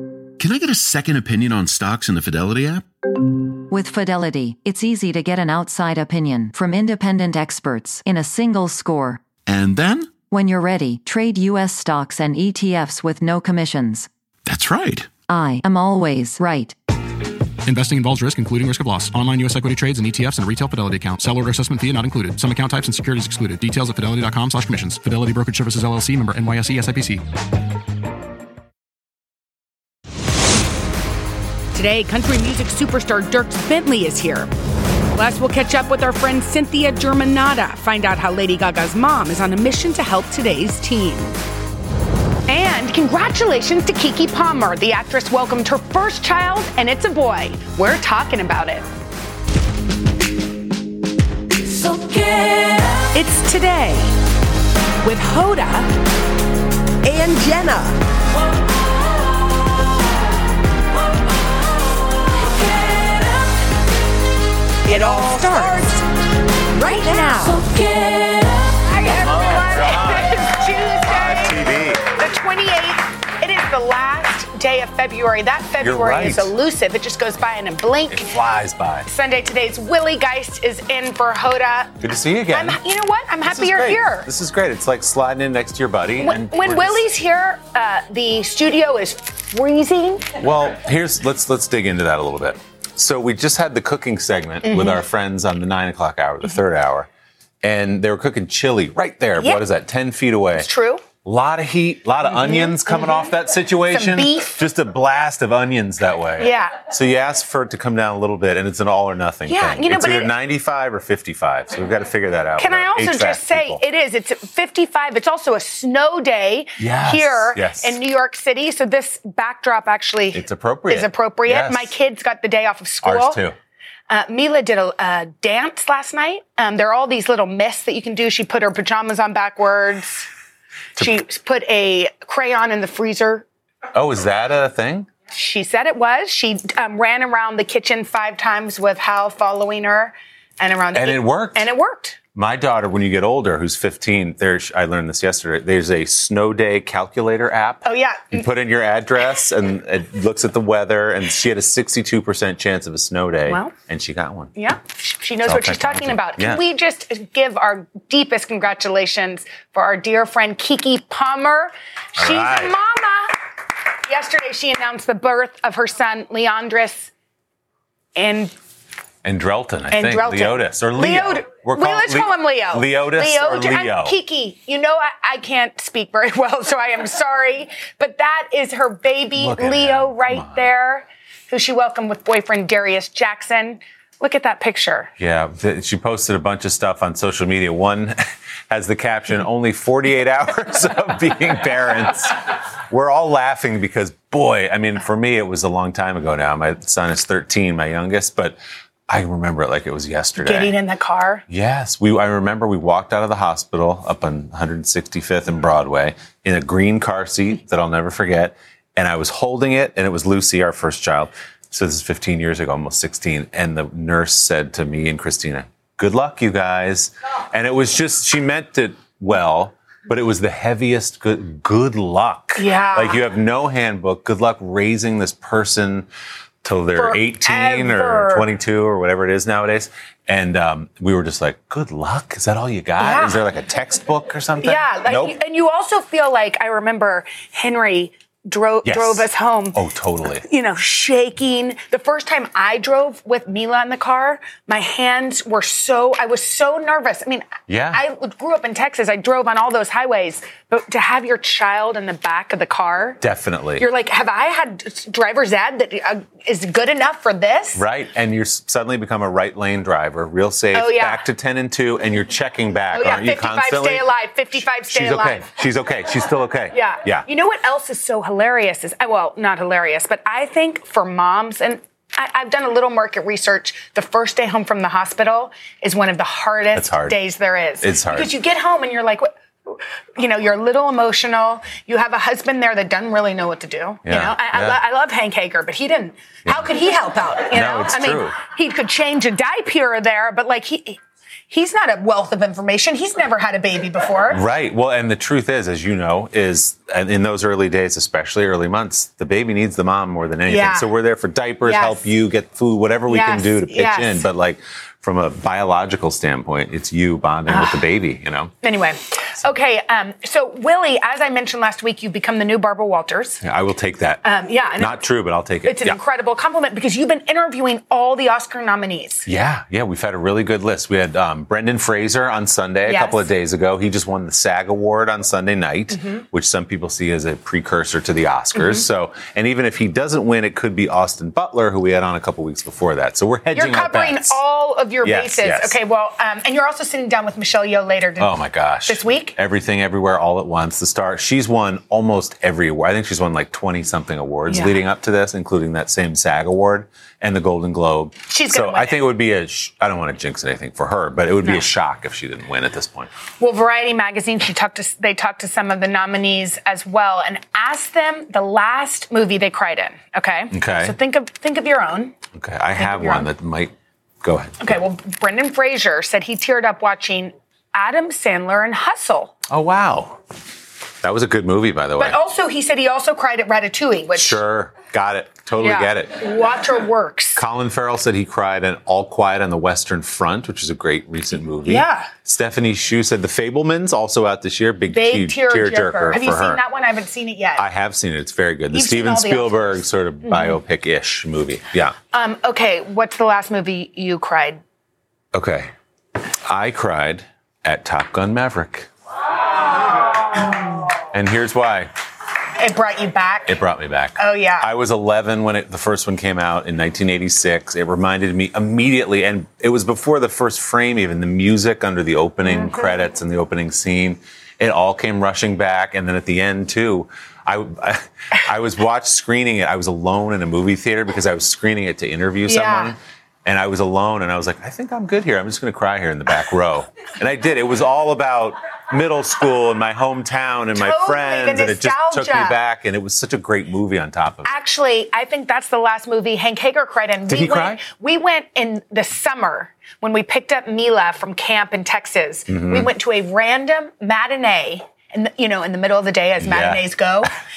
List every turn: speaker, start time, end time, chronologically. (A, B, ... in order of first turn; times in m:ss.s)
0:00.4-0:02.9 A
0:03.7-0:09.3 B
0:09.4-0:10.2 A
0:10.3-0:14.1 B
0:14.5-0:15.1 A
0:15.3-0:16.8 B
0:17.7-0:27.2 C
0:31.7-0:34.5 D
0:35.2-0:41.4 D
0:42.5-0:48.9 D
0:53.1-0:54.1 D
0:55.0-0:55.9 D
0:57.1-0:57.9 D
1:04.8-1:06.0 D
1:06.8-1:07.8 D
1:08.8-1:18.3 D
1:09.1-1:12.1 E
1:15.8-1:16.5 E
1:18.1-1:19.1 E
1:19.1-1:21.9 D
1:22.0-1:22.8 E
1:22.5-1:24.3 D
1:23.4-1:27.1 E
1:26.2-1:30.3 D
1:30.4-1:37.1 E
1:34.6-1:35.0 D
1:37.6-1:40.7 E
1:40.5-1:41.0 D
1:41.2-1:53.8 E
1:42.2-1:43.3 D
1:43.9-1:44.6 D
1:46.4-1:46.8 D
1:49.5-1:50.3 D
1:52.6-2:03.4 D
1:56.8-1:58.0 E
2:00.3-2:01.9 E
2:03.0-2:03.6 E
2:04.1-2:10.3 D
2:11.0-2:13.5 D
2:13.9-2:15.1 E
2:15.3-2:22.2 D
2:20.9-2:21.7 E
2:22.3-2:34.5 E
2:27.8-2:28.4 D
2:33.5-2:33.8 D
2:34.6-2:43.4 D
2:35.4-2:36.6 E
2:42.2-2:42.8 E
2:44.1-2:47.1 D
2:48.2-2:48.5 D
2:49.2-2:54.2 E
2:49.9-3:05.1 D
2:59.4-3:00.7 E
3:05.2-3:20.8 E
3:20.4-3:21.4 D
3:21.5-3:46.1 E
3:42.6-3:43.2 D
3:46.6-3:55.4 E
3:47.0-3:48.5 D
3:53.0-3:53.4 D
3:54.6-3:59.8 D
3:58.8-4:00.4 E
4:00.4-4:13.2 D
4:07.7-4:08.0 E
4:13.2-4:13.9 E
4:13.8-4:17.8 D
4:17.8-4:24.1 E
4:20.7-4:21.2 D
4:22.9-4:25.5 D
4:24.9-4:27.3 E
4:26.7-4:51.0 D
4:36.7-4:37.2 E
4:37.8-4:38.4 E
4:44.0-4:44.8 E
4:46.5-4:46.7 E
4:47.5-4:48.4 E
4:51.5-4:54.4 D
4:54.3-5:08.5 E
5:00.5-5:00.9 D
5:01.6-5:02.1 D
5:03.1-5:04.3 D
5:07.5-5:07.8 D
5:08.6-5:13.4 D
5:13.4-5:14.2 E
5:14.2-5:15.0 D
5:14.8-5:16.0 E
5:15.6-5:19.3 D
5:19.3-5:34.4 E
5:22.9-5:23.3 D
5:25.9-5:26.2 D
5:28.6-5:28.8 D
5:33.5-5:39.4 D
5:35.0-5:35.8 E
5:38.2-5:53.1 E
5:44.5-5:44.8 D
5:48.3-5:49.0 D
5:51.4-5:51.7 D
5:53.4-6:02.2 D
6:00.5-6:01.0 E
6:02.3-6:04.8 E
6:02.8-6:03.3 D
6:04.6-6:09.3 D
6:09.5-6:10.2 E
6:11.0-6:12.2 E
6:12.0-6:14.4 D
6:14.2-6:16.3 E
6:15.6-6:17.4 D
6:17.4-6:26.6 E
6:21.6-6:22.1 D
6:24.9-6:27.7 D
6:27.6-6:32.0 E
6:28.7-6:30.6 D
6:32.1-6:34.6 D
6:35.3-6:35.7 E
6:36.5-6:38.9 E
6:41.1-6:41.9 E
6:42.6-6:43.6 D
6:43.5-7:14.5 E
6:44.2-6:44.7 D
6:52.5-6:53.0 D
7:02.5-7:02.9 D
7:10.8-7:12.6 D
7:14.4-7:27.3 D
7:17.3-7:17.8 E
7:22.5-7:22.9 E
7:26.4-7:26.8 E